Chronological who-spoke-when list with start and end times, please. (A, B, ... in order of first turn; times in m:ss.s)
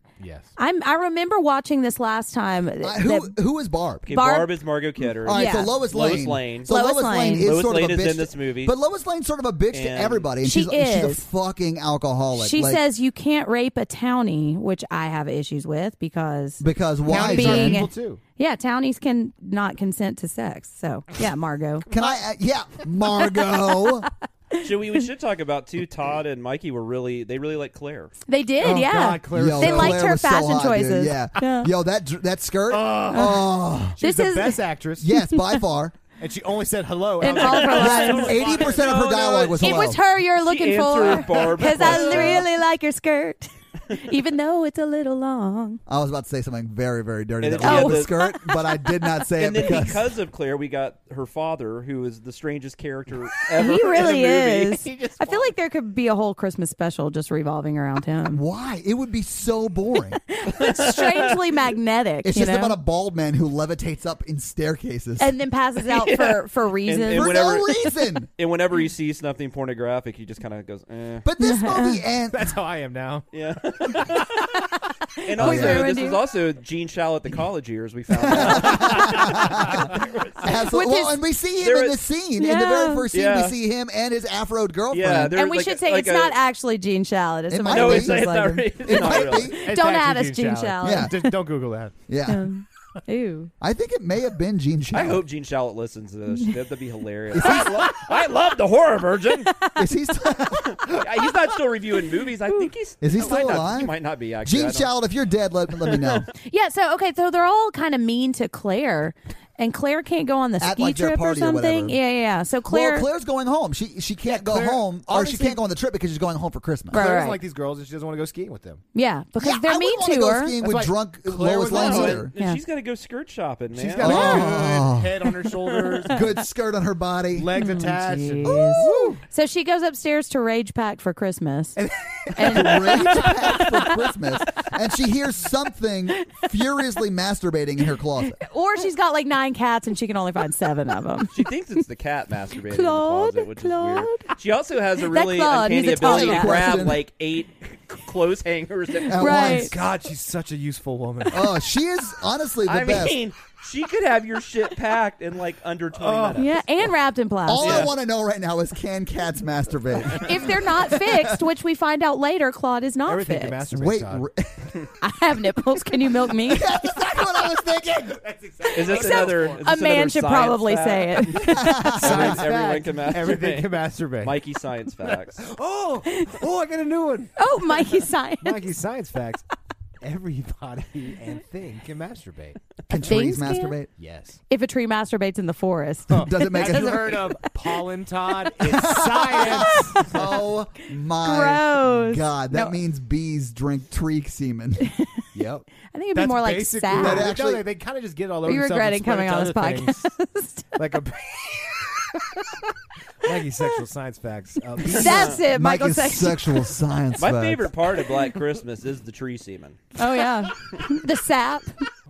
0:00.2-0:00.5 A
0:00.6-0:03.3 B
0:02.8-0:04.1 C
0:04.0-0:06.7 D
0:04.1-0:04.5 B
0:05.2-0:12.8 C
0:05.3-0:05.7 B
0:06.7-0:07.5 B
0:07.4-0:08.8 D
0:09.7-0:10.3 D
0:10.4-0:11.2 B
0:12.3-0:21.9 B
0:16.6-0:17.9 C
0:17.0-0:18.2 A
0:21.9-0:24.1 C
0:23.4-0:24.7 B
0:24.6-0:28.1 D
0:28.3-0:31.7 B
0:28.6-0:30.0 A
0:29.3-0:34.0 C
0:32.7-0:35.1 A
0:33.1-0:33.4 B
0:34.0-0:34.6 B
0:35.0-0:36.0 C
0:35.2-0:35.6 B
0:36.2-0:39.1 A
0:37.2-0:38.4 B
0:37.4-0:42.5 D
0:37.6-0:40.0 C
0:39.6-0:45.8 B
0:41.2-0:42.4 A
0:45.9-0:50.1 C
0:47.4-0:48.2 D
0:47.6-0:48.9 B
0:49.4-0:54.8 D
0:53.5-0:58.4 B
0:54.8-0:55.5 A
0:58.3-1:00.2 C
1:00.3-1:02.8 B
1:00.6-1:01.4 D
1:02.2-1:05.3 C
1:05.2-1:07.6 B
1:05.8-1:11.2 D
1:07.1-1:08.3 C
1:11.2-1:12.5 C
1:11.4-1:12.0 B
1:12.3-1:13.3 A
1:13.3-1:14.6 D
1:13.8-1:14.4 A
1:14.5-1:16.2 B
1:15.2-1:20.5 D
1:15.4-1:15.9 C
1:18.2-1:25.4 C
1:18.8-1:20.2 A
1:20.5-1:21.2 B
1:21.6-1:22.0 D
1:22.4-1:23.1 B
1:23.1-1:23.6 D
1:24.9-1:26.4 D
1:25.3-1:31.3 B
1:27.5-1:28.2 C
1:27.6-1:29.6 D
1:28.8-1:29.6 C
1:29.3-1:31.9 A
1:30.8-1:31.1 C
1:32.1-1:32.5 C
1:32.2-1:33.5 B
1:33.6-1:35.2 C
1:34.9-1:39.6 D
1:37.3-1:37.8 C
1:37.4-1:37.7 B
1:39.5-1:39.7 B
1:39.8-1:41.0 C
1:40.6-1:44.9 D
1:43.0-1:46.3 C
1:45.8-1:46.2 D
1:46.3-1:53.1 B
1:50.6-1:52.0 C
1:52.7-1:57.1 C
1:54.2-1:55.6 A
1:56.9-1:57.4 B
1:56.9-1:58.8 A
1:58.9-2:00.6 B
1:59.4-2:02.3 C
2:00.6-2:02.2 A
2:01.7-2:04.5 D
2:03.7-2:06.2 A
2:04.0-2:05.3 C
2:04.0-2:04.5 B
2:05.7-2:06.0 D
2:06.1-2:07.5 C
2:07.3-2:09.2 A
2:07.5-2:11.8 B
2:08.4-2:09.2 C
2:11.8-2:13.9 A
2:12.4-2:13.9 B
2:12.4-2:18.4 C
2:18.2-2:21.4 B
2:21.3-2:29.3 D
2:22.7-2:24.3 B
2:25.0-2:26.8 B
2:26.0-2:27.0 C
2:29.1-2:29.7 B
2:29.1-2:29.7 C
2:29.2-2:31.6 A
2:31.3-2:33.2 C
2:32.6-2:36.6 D
2:35.9-2:36.6 A
2:36.4-2:37.8 B
2:37.4-2:41.4 C
2:37.6-2:37.9 D
2:40.2-2:43.7 B
2:43.0-2:44.2 A
2:43.7-2:44.7 C
2:45.0-2:46.8 B
2:46.4-2:48.2 C
2:47.2-2:49.7 A
2:48.7-2:52.0 B
2:48.7-2:55.4 D
2:51.3-2:52.4 C
2:51.9-2:54.4 A
2:55.0-2:59.4 A
2:56.0-2:56.4 B
2:57.4-2:58.6 B
3:00.0-3:02.6 A
3:02.9-3:03.9 C
3:03.0-3:03.8 B
3:04.0-3:04.4 A
3:04.5-3:07.7 B
3:06.1-3:10.1 A
3:06.1-3:07.2 C
3:08.6-3:14.9 C
3:09.4-3:10.3 B
3:11.2-3:12.7 B
3:15.3-3:20.1 A
3:15.9-3:17.3 B
3:16.9-3:17.6 C
3:18.4-3:20.8 B
3:20.8-3:22.6 A
3:23.2-3:25.4 A
3:24.8-3:26.7 B
3:25.0-3:25.3 D
3:25.3-3:27.7 C
3:27.2-3:30.2 D
3:30.0-3:31.8 B